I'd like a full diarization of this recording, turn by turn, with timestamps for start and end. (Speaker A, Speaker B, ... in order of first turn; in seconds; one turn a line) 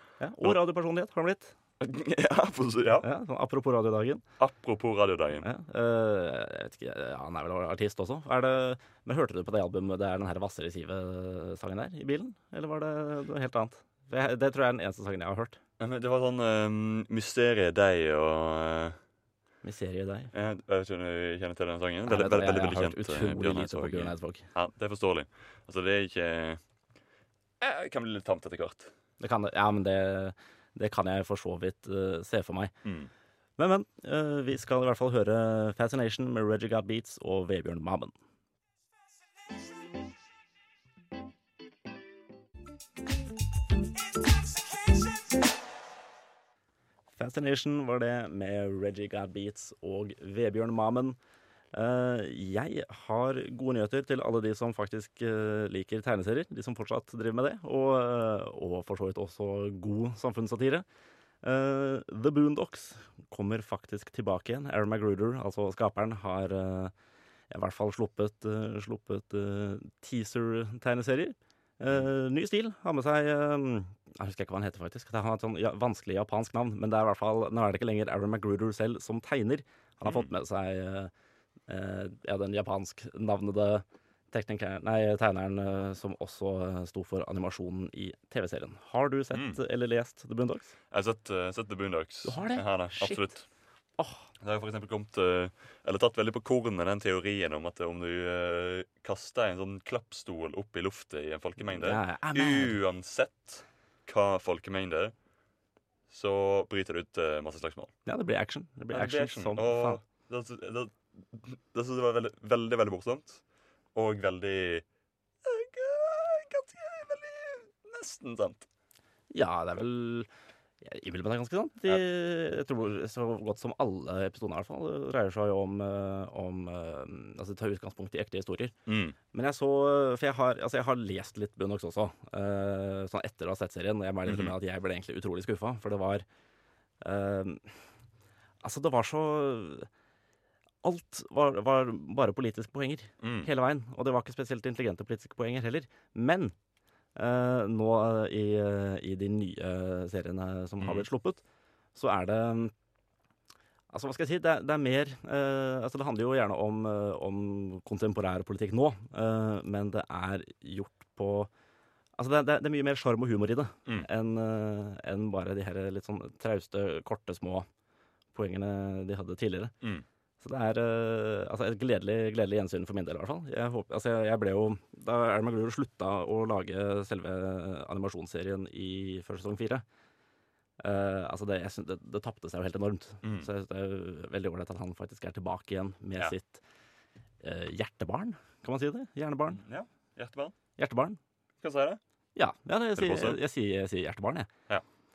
Speaker A: 0.2-1.5
Speaker B: 1.8-3.1
Speaker A: 3.0-4.2
Speaker B: 4.4-5.4
Speaker A: 5.4-15.6
Speaker B: 15.8-19.0
Speaker A: 19.6-20.3
Speaker B: 20.3-26.6
Speaker A: 22.1-24.4
Speaker B: 27.6-28.9
Speaker A: 29.2-32.7
Speaker B: 32.8-33.1
Speaker A: 33.6-38.1
Speaker A: 47.1-51.2
Speaker A: 51.7-60.8
Speaker A: 61.4-66.9
Speaker A: 67.5-81.1
Speaker A: 81.7-90.7
Speaker B: 90.9-93.5
Speaker A: 92.2-93.3
Speaker A: 94.0-94.2
Speaker B: 94.4-105.1
Speaker A: 101.7-102.8
Speaker B: 106.1-107.9
Speaker A: 108.1-110.0
Speaker B: 108.9-113.4
Speaker B: 113.9-114.8
Speaker B: 115.4-118.7
Speaker A: 119.3-120.3
Speaker A: 120.8-128.7
Speaker B: 128.9-129.2
Speaker A: 129.3-136.2
Speaker B: 134.2-134.5
Speaker A: 137.0-137.7
Speaker A: 138.6-139.9
Speaker A: 140.8-146.5
Speaker B: 143.2-143.5
Speaker A: 147.2-151.4
Speaker B: 150.8-151.1
Speaker A: 151.9-152.7
Speaker A: 153.9-161.5
Speaker A: 162.2-167.7
Speaker A: 168.3-169.7
Speaker A: 170.4-179.8
Speaker A: 180.8-186.6
Speaker B: 183.2-183.5
Speaker A: 187.4-189.6
Speaker B: 189.5-190.5
Speaker A: 190.8-191.2
Speaker B: 191.6-192.0
Speaker A: 192.3-194.5
Speaker B: 192.9-193.4